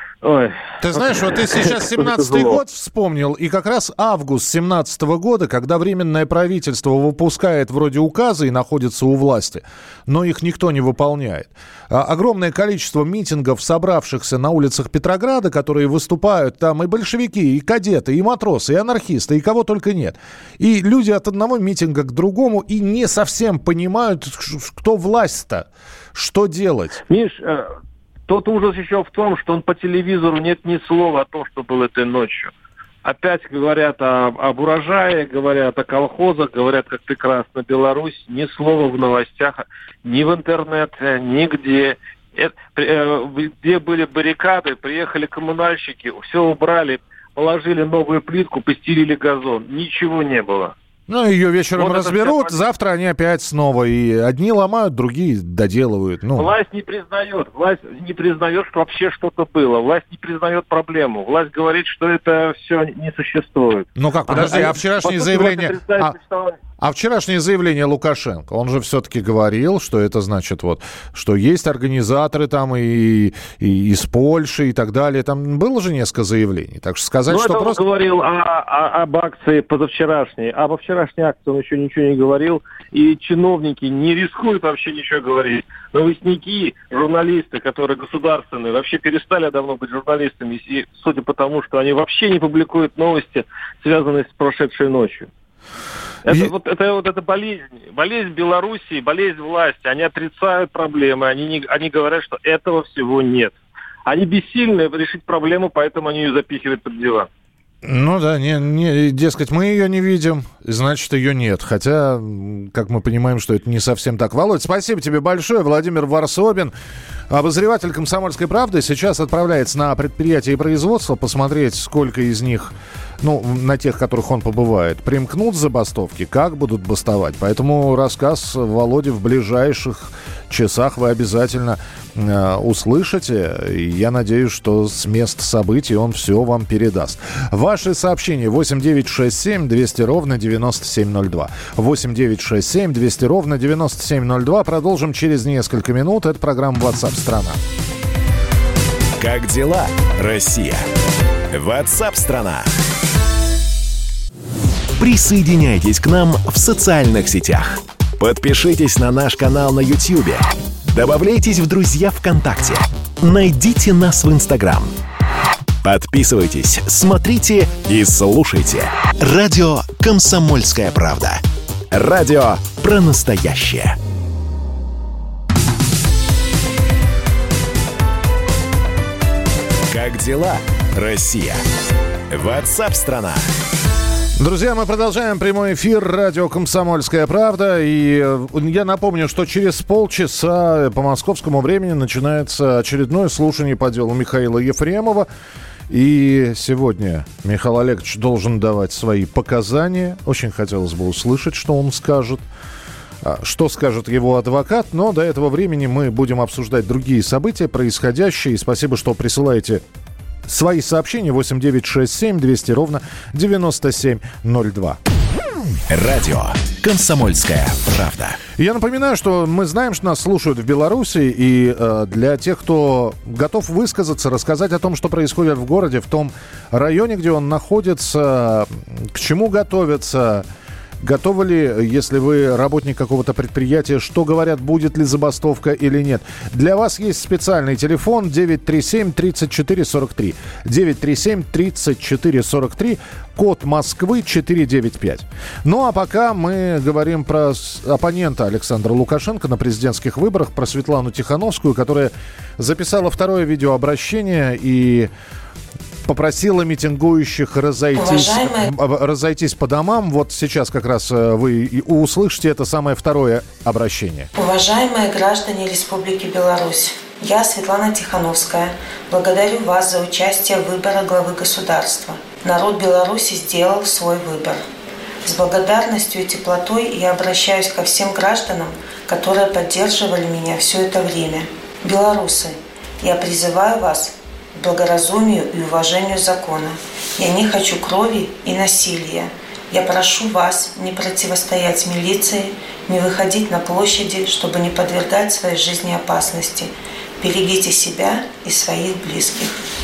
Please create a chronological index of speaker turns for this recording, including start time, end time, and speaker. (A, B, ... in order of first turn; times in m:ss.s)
0:00.2-0:02.6 A
0:00.8-0:27.0 B
0:27.1-0:27.7 A
0:28.3-0:32.5 A
0:33.0-0:50.7 A
0:51.1-0:56.5 B
0:51.8-0:52.6 A
0:56.4-1:06.6 A
1:04.0-1:06.1 B
1:06.8-1:17.8 B
1:17.3-1:35.3 A
1:36.2-1:47.3 A
1:47.8-1:56.7 B
1:57.3-2:27.6 B
2:29.2-2:30.8 C
2:31.5-2:32.7 C
2:35.0-2:44.9 C
2:45.8-2:54.0 C
2:59.9-3:01.6 C
3:02.3-3:03.4 C
3:04.4-3:15.3 B
3:15.9-3:22.4 B
3:23.2-3:29.8 B
3:30.4-3:35.0 B
3:35.9-3:38.4 C
3:38.6-3:50.5 B
3:51.0-4:15.1 B
4:16.0-4:24.3 B
4:18.0-4:18.7 D
4:24.3-4:34.6 D
4:35.2-4:59.6 D